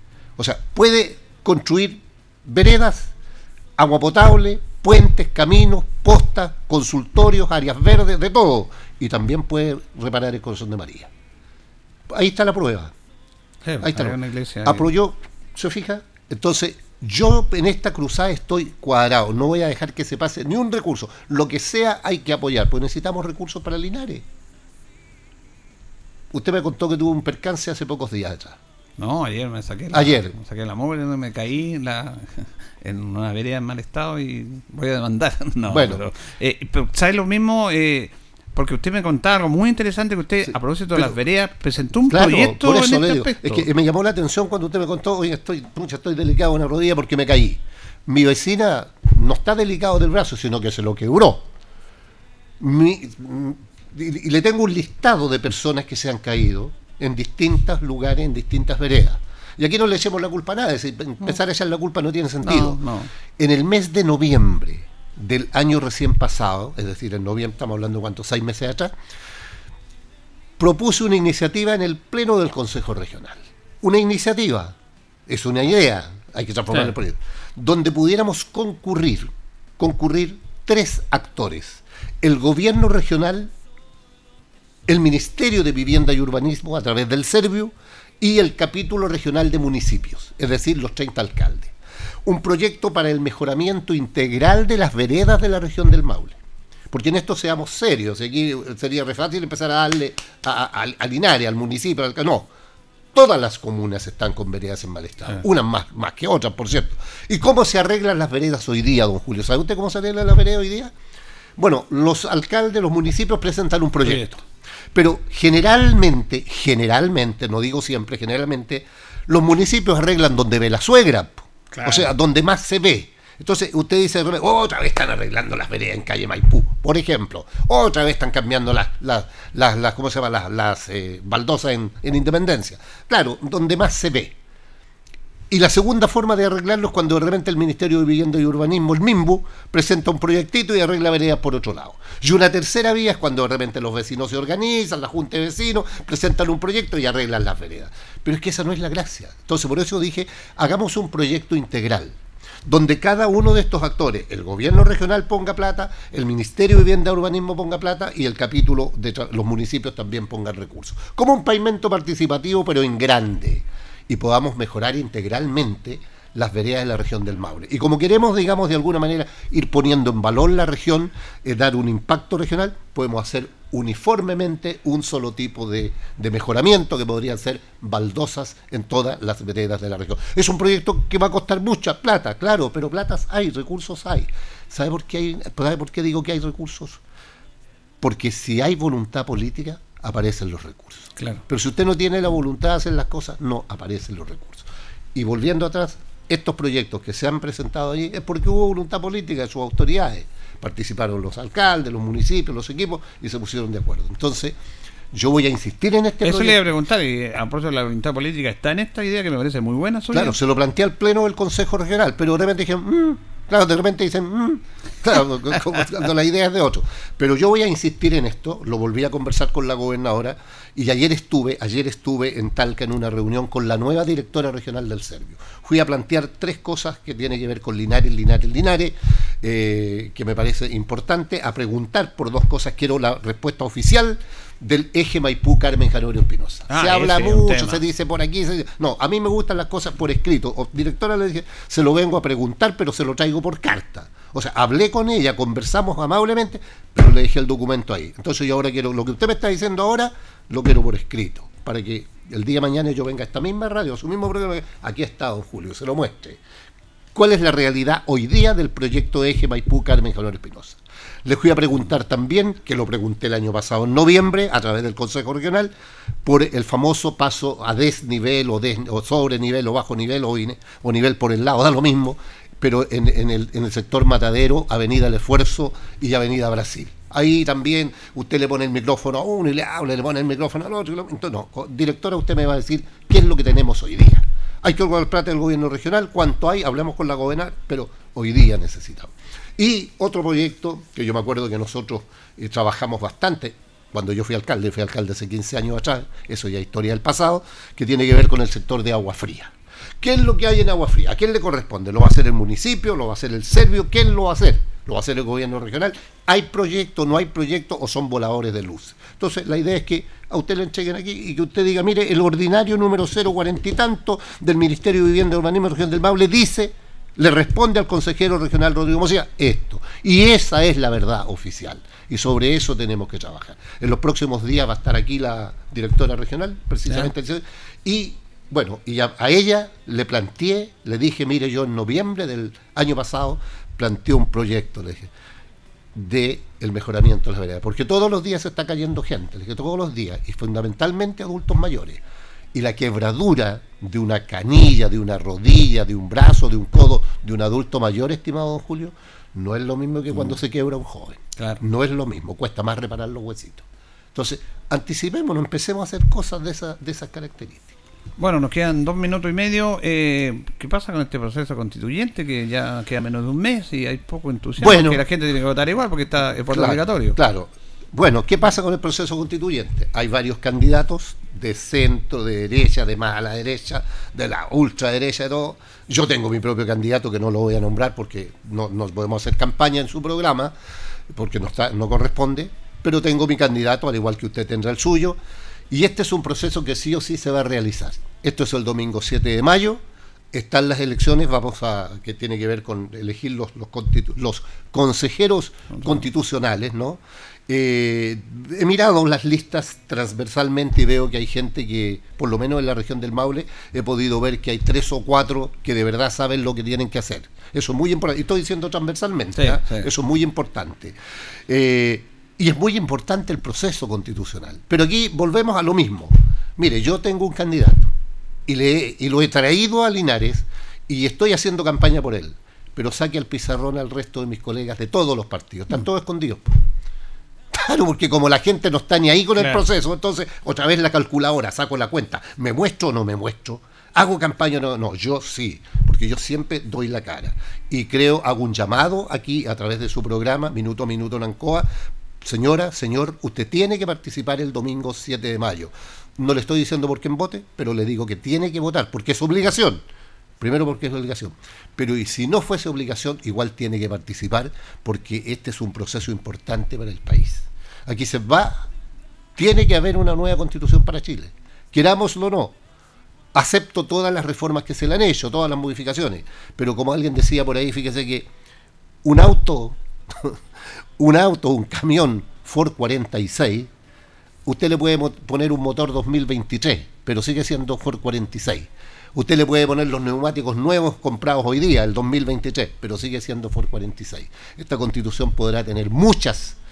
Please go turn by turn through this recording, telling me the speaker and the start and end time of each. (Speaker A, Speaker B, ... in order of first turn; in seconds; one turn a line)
Speaker A: 0.4-3.1
Speaker A: 3.8-11.1
Speaker A: 12.1-12.9
Speaker B: 13.7-14.9
Speaker A: 13.8-24.2
Speaker A: 26.3-28.6
Speaker B: 29.0-43.7
Speaker A: 29.9-30.4
Speaker A: 35.7-36.0
Speaker A: 42.1-51.5
Speaker A: 52.6-62.8
Speaker B: 62.4-63.1
Speaker A: 63.4-69.0
Speaker A: 70.6-74.8
Speaker A: 75.3-83.5
Speaker A: 84.9-91.7
Speaker A: 92.2-96.4
Speaker A: 96.9-102.5
Speaker A: 103.2-110.9
Speaker A: 111.6-114.3
Speaker B: 114.0-114.4
Speaker A: 114.9-134.3
Speaker B: 121.7-122.1
Speaker A: 135.5-187.0
Speaker A: 188.0-204.6
Speaker B: 191.2-191.4
Speaker A: 205.1-206.6
Speaker B: 206.2-210.3
Speaker A: 210.1-256.4
Speaker B: 236.7-237.8
Speaker A: 257.1-265.7
Speaker A: 266.2-335.1
Speaker A: 335.9-342.0
Speaker A: 342.5-357.7
Speaker B: 358.2-367.2
Speaker A: 364.6-365.0
Speaker A: 366.5-380.6
Speaker A: 381.1-385.2
Speaker A: 385.7-389.8
Speaker A: 390.3-411.0
Speaker B: 409.4-409.9
Speaker A: 411.5-417.9
Speaker A: 418.5-426.6
Speaker A: 427.5-441.7
Speaker B: 429.4-429.6
Speaker A: 442.2-449.8
Speaker A: 450.4-458.7
Speaker A: 459.4-462.6
Speaker A: 463.3-468.3
Speaker A: 469.0-470.4
Speaker A: 471.0-473.7
Speaker A: 474.5-486.6